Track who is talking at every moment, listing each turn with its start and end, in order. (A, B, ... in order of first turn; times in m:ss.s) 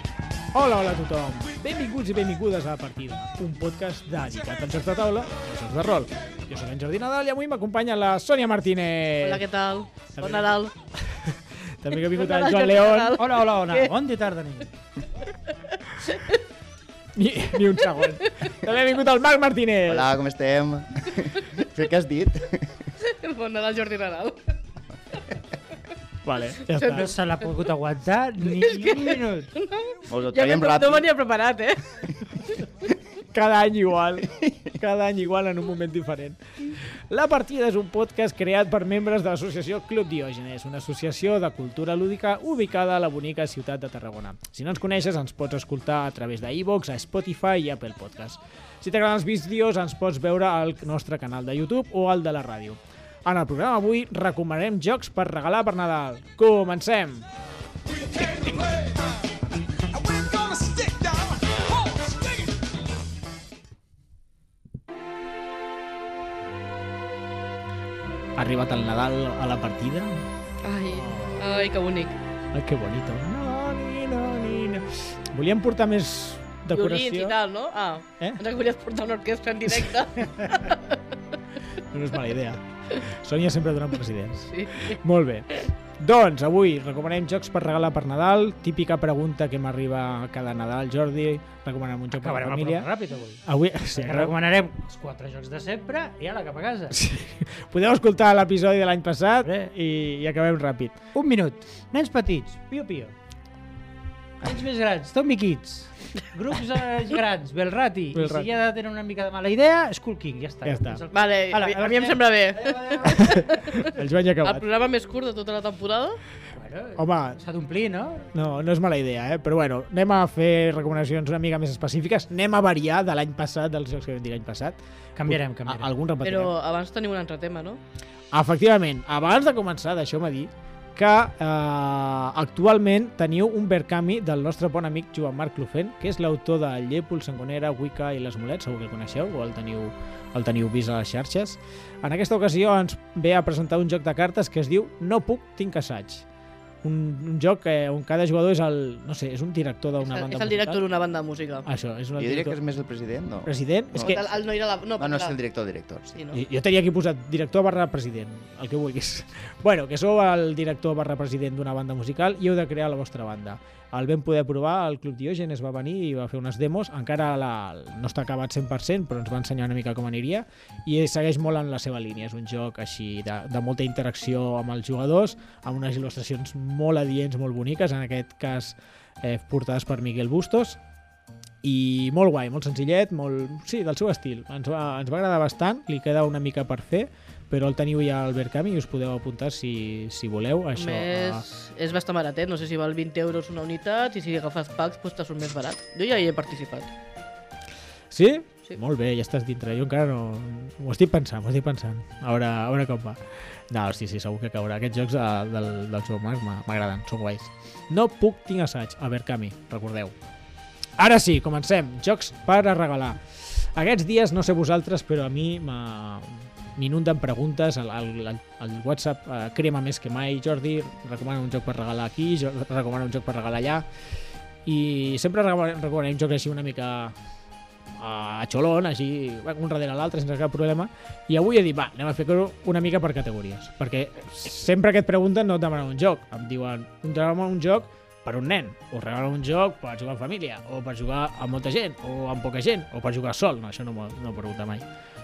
0:00.5-0:09.4 A
0:09.2-0:10.7 B
0:10.2-0:13.2 A
0:12.1-0:13.9 B
0:13.2-0:14.7 C
0:16.0-0:16.4 B
0:17.2-0:20.2 A
0:19.9-0:22.9 D
0:23.0-0:24.5 B
0:26.2-0:27.1 A
0:26.8-0:27.1 B
0:26.8-0:29.5 C
0:28.6-0:32.0 B
0:30.1-0:31.1 D
0:33.3-0:57.3 A
0:57.9-0:59.0 A
0:59.9-1:02.3 A
1:08.4-1:10.3 A
1:10.6-1:12.2 B
1:10.9-1:11.5 A
1:12.5-1:17.4 A
1:16.7-1:21.0 B
1:20.2-1:20.6 A
1:21.9-1:32.9 A
1:24.5-1:25.0 B
1:32.1-1:37.0 C
1:33.4-1:34.3 A
1:36.9-1:41.0 A
1:39.4-1:39.7 C
1:41.1-1:43.1 C
1:44.4-1:53.5 C
1:48.1-1:48.5 A
1:50.6-1:51.0 A
1:51.1-1:53.9 B
1:53.2-1:54.6 A
1:54.4-1:56.2 B
1:56.5-1:58.3 C
1:57.0-1:57.4 A
1:58.3-2:06.5 A
2:05.2-2:05.9 C
2:06.2-2:07.8 B
2:08.3-2:26.2 A
2:26.8-2:30.8 A
2:30.0-2:31.7 B
2:31.6-2:32.6 A
2:32.2-2:34.2 D
2:33.4-2:34.2 A
2:34.0-2:35.4 B
2:35.0-2:36.2 D
2:36.2-2:36.4 B
2:36.3-3:00.8 A
3:01.6-3:11.4 A
3:10.8-3:16.9 B
3:18.1-3:30.2 A
3:31.0-3:43.9 A
3:44.7-3:47.1 A
3:47.9-4:04.9 A